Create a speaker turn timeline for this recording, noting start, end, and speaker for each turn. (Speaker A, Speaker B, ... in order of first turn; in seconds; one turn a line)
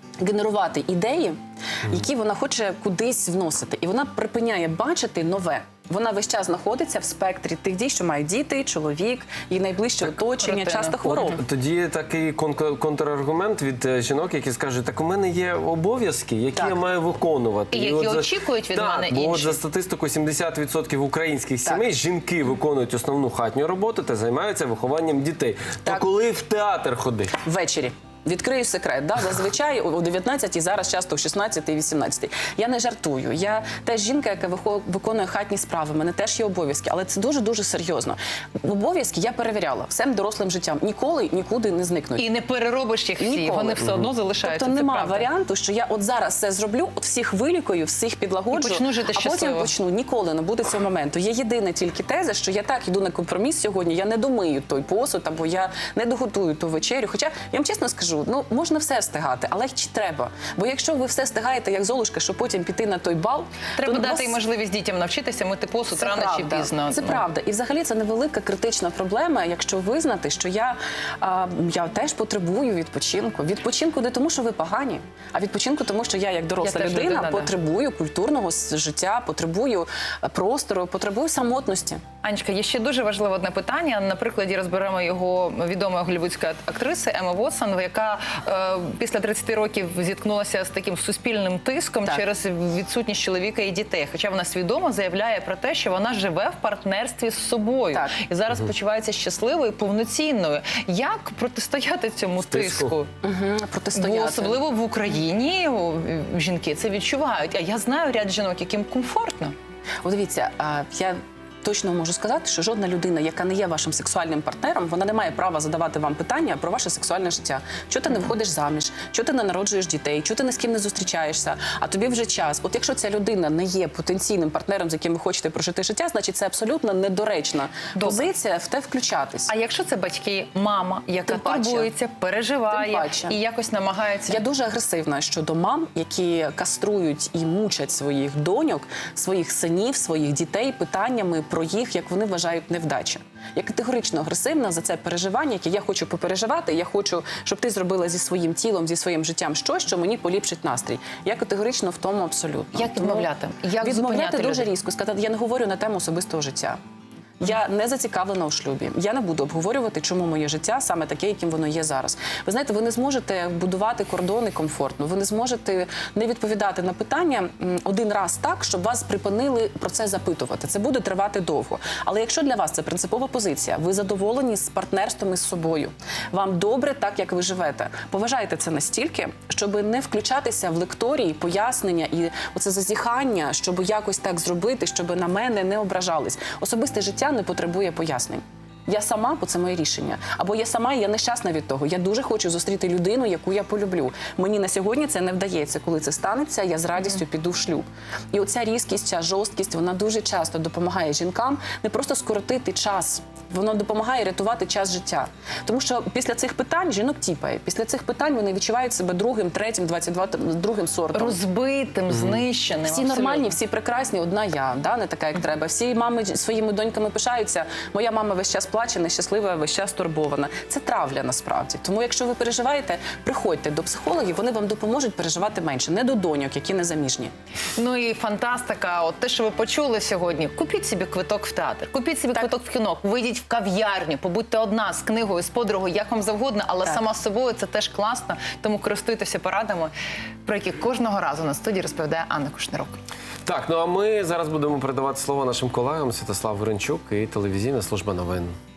Speaker A: 0.2-11.4
Speaker B: 10.4-11.2
Speaker C: 11.0-27.3
Speaker B: 17.7-19.6
Speaker A: 27.4-42.3
Speaker B: 42.2-45.3
Speaker A: 43.2-43.8
Speaker A: 44.4-64.4
Speaker B: 48.5-49.7
Speaker B: 63.8-67.2
Speaker A: 65.9-82.0
Speaker B: 76.6-77.5
Speaker B: 82.2-103.1
Speaker C: 102.5-102.9
Speaker A: 103.2-104.6
Speaker B: 103.9-109.5
Speaker A: 110.0-129.5
Speaker B: 127.9-128.2
Speaker B: 129.5-134.4
Speaker A: 131.2-131.9
Speaker A: 132.7-133.4
Speaker A: 134.3-153.3
Speaker B: 152.7-154.7
Speaker A: 153.8-156.8
Speaker A: 157.4-211.4
Speaker B: 211.1-213.5
Speaker A: 212.8-227.3
Speaker B: 227.8-239.9
Speaker B: 240.4-243.0
Speaker C: 243.4-248.5